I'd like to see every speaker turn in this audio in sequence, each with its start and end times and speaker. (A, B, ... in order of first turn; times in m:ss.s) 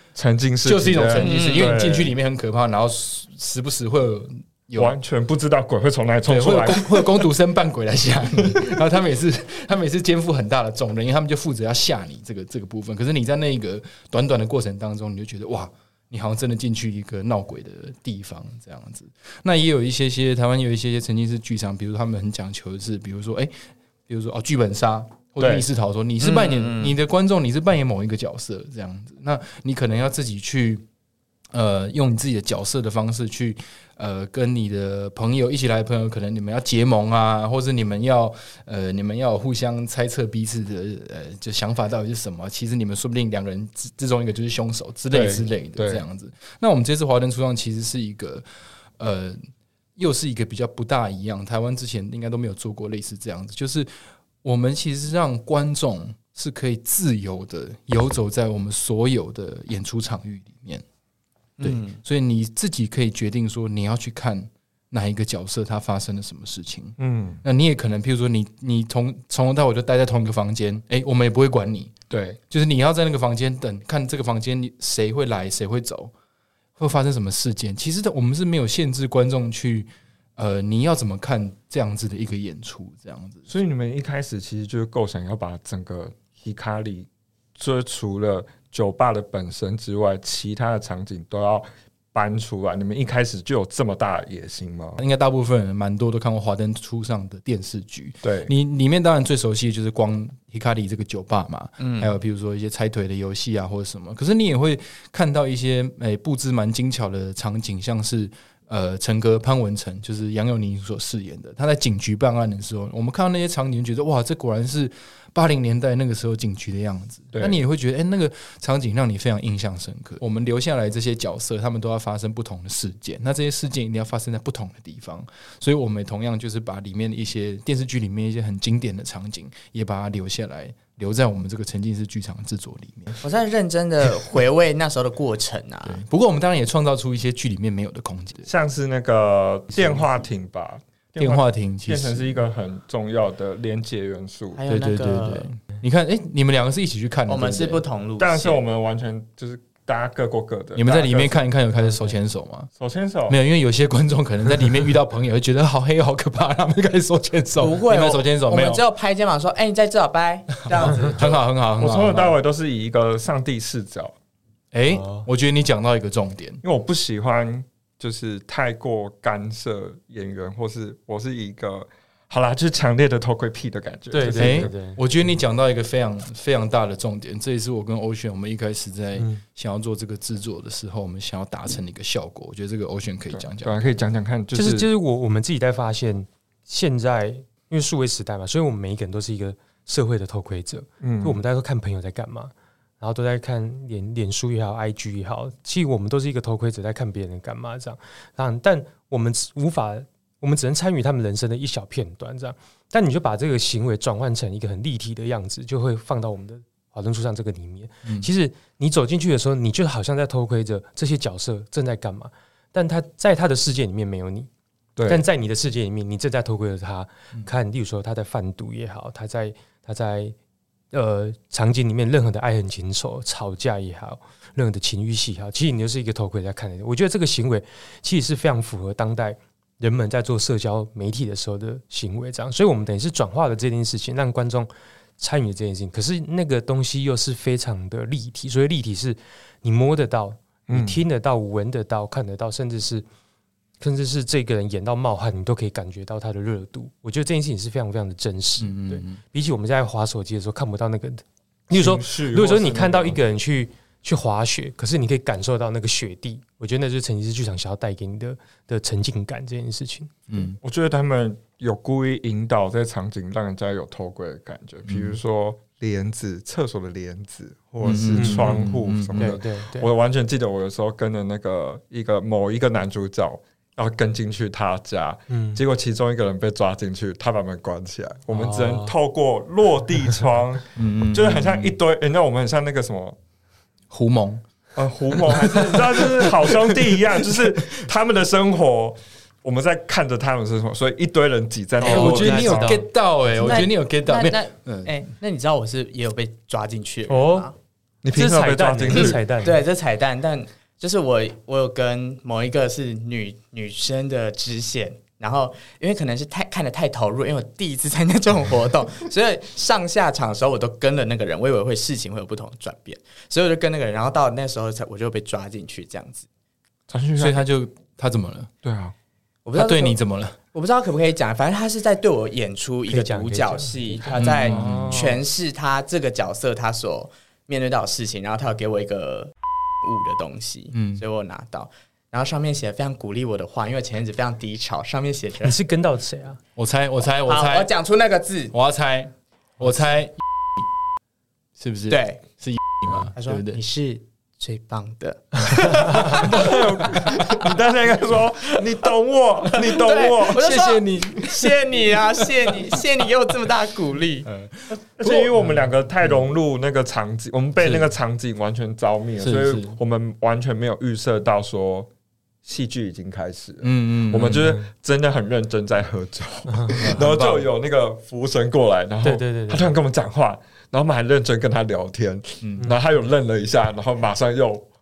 0:00.2-0:02.1 A
0:00.6-0:05.0 B
0:01.1-0:01.8 C
0:04.8-0:07.0 A
0:06.3-0:23.5 B
0:24.1-0:30.8 B
0:25.4-0:25.6 A
0:26.2-0:27.0 C
0:31.5-0:48.4 B
0:45.1-0:46.0 A
0:49.0-0:53.9 B
0:54.4-1:00.8 B
1:01.6-1:02.0 C
1:01.6-1:11.9 B
1:07.0-1:07.4 A
1:12.1-1:12.4 A
1:12.5-1:16.1 B
1:16.8-1:23.5 B
1:23.5-1:35.0 A
1:35.0-2:13.2 B
1:38.2-1:38.5 A
1:41.8-1:42.1 C
2:13.2-2:16.0 C
2:15.9-2:18.5 B
2:18.5-2:24.6 A
2:19.7-2:20.2 B
2:21.2-2:22.4 B
2:24.6-2:25.5 C
2:24.7-2:27.8 B
2:27.3-2:28.6 C
2:28.2-2:31.4 A
2:30.8-2:32.7 B
2:32.8-2:33.4 A
2:33.3-2:38.8 B
2:37.6-2:41.4 C
2:40.6-2:42.4 B
2:41.8-2:44.2 A
2:44.7-2:46.6 B
2:44.9-2:45.3 D
2:46.6-2:54.7 A
2:54.1-2:55.0 D
2:54.3-3:03.9 B
3:03.3-3:04.9 A
3:04.6-3:34.5 D
3:11.0-3:11.4 A
3:35.0-3:35.2 A
3:35.1-3:40.4 D
3:40.9-4:03.0 D
4:00.7-4:01.0 A
4:03.8-4:20.2 D
4:08.6-4:09.2 B
4:11.7-4:13.2 A
4:20.3-4:20.6 B
4:20.6-4:43.2 A
4:24.9-4:25.2 B
4:27.8-4:29.4 B
4:28.1-4:28.5 D
4:29.2-4:29.9 D
4:35.3-4:35.6 D
4:38.3-4:39.0 D
4:40.8-4:41.8 B
4:43.9-4:44.4 B
4:44.8-4:52.8 A
4:45.1-4:47.4 B
4:51.8-4:52.9 D
4:51.8-4:55.0 B
4:53.4-4:57.5 C
4:57.1-4:57.5 D
4:58.0-4:59.2 A
4:58.1-4:59.6 D
4:58.9-5:16.3 C
5:16.9-5:17.4 A
5:17.2-5:18.5 B
5:18.6-5:18.9 A
5:19.4-5:20.0 C
5:19.6-5:20.4 B
5:20.5-5:29.3 C
5:22.9-5:24.3 D
5:24.2-5:25.1 B
5:24.5-5:25.1 A
5:29.8-5:35.6 C
5:30.7-5:31.0 B
5:35.4-5:36.4 D
5:36.6-5:37.7 B
5:37.3-5:38.6 C
5:38.5-5:40.2 B
5:41.6-5:43.6 B
5:41.9-5:42.2 C
5:43.2-5:47.6 C
5:46.0-5:47.5 B
5:46.1-5:50.5 A
5:49.5-5:54.3 C
5:50.3-5:52.7 B
5:54.2-5:56.2 B
5:55.0-6:01.9 A
5:57.6-5:57.9 B
5:59.2-5:59.8 B
6:02.4-6:14.7 A
6:03.6-6:04.6 B
6:06.5-6:06.8 D
6:06.7-6:07.5 B
6:09.0-6:09.7 D
6:12.4-6:12.7 B